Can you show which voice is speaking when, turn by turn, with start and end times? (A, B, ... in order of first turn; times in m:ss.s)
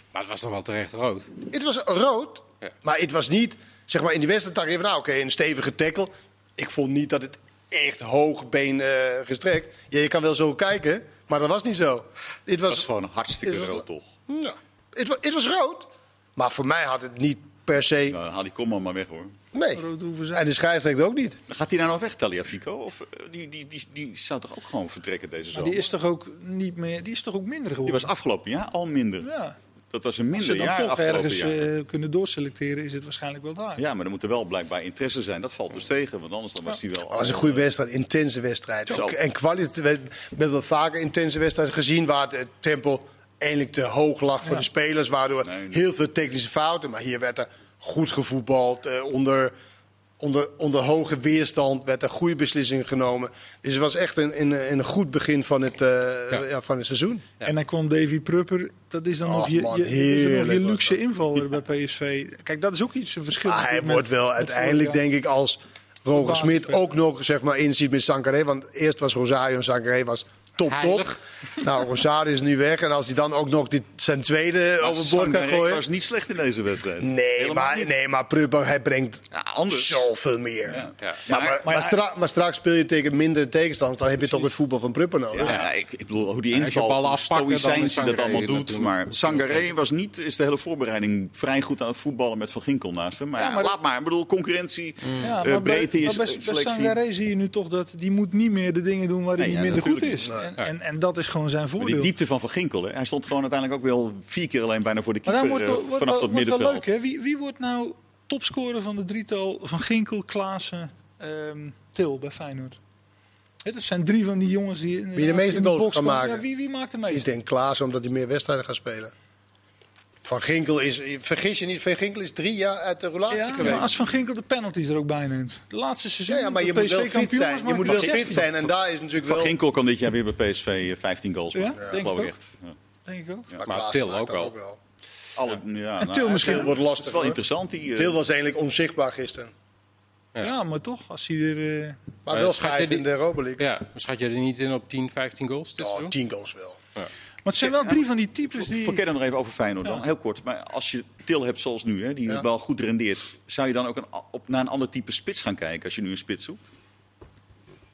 0:00.1-0:01.3 A
0:01.4-0:12.9 B
0:12.7-0:14.1 C
0:13.4-0:18.2 B
0:18.1-0:19.3 C
0:19.5-0:19.8 B
0:19.7-0:20.4 D
0:20.3-0:21.4 B
0:21.5-0:25.9 C
0:25.5-0:28.1 D
0:27.9-0:29.3 C
0:29.2-0:29.6 D
0:29.9-0:31.6 C
0:30.3-0:33.8 D
0:33.8-0:37.6 C
0:37.1-0:49.5 B
0:38.9-0:39.2 C
0:45.4-0:45.8 C
0:50.2-0:57.2 B
0:57.4-1:05.0 D
0:59.2-1:01.0 B
1:03.4-1:15.8 B
1:06.1-1:06.8 D
1:10.7-1:11.2 A
1:14.8-1:17.9 C
1:17.0-1:25.5 B
1:19.3-1:20.1 C
1:20.7-1:21.6 C
1:21.6-1:22.0 D
1:25.3-1:37.0 C
1:26.5-1:29.6 A
1:33.4-1:33.7 D
1:35.2-1:42.1 D
1:39.4-1:40.4 C
1:41.8-1:46.9 C
1:45.2-1:52.8 D
1:53.6-1:57.3 D
1:55.2-1:56.4 B
1:57.1-1:59.1 B
2:00.2-2:03.9 B
2:03.3-2:08.5 D
2:03.6-2:04.2 C
2:06.3-2:09.5 B
2:07.8-2:08.5 C
2:09.2-2:12.8 C
2:11.5-2:12.4 D
2:11.8-2:12.0 B
2:13.0-2:13.5 D
2:13.6-2:14.8 B
2:13.6-2:14.5 A
2:15.4-2:18.2 C
2:16.0-2:16.7 D
2:16.3-2:17.4 B
2:17.9-2:19.5 B
2:20.4-2:22.0 D
2:22.2-2:23.6 B
2:22.3-2:26.1 A
2:25.8-2:26.8 B
2:27.4-2:29.0 D
2:27.6-2:28.0 C
2:28.5-2:36.6 C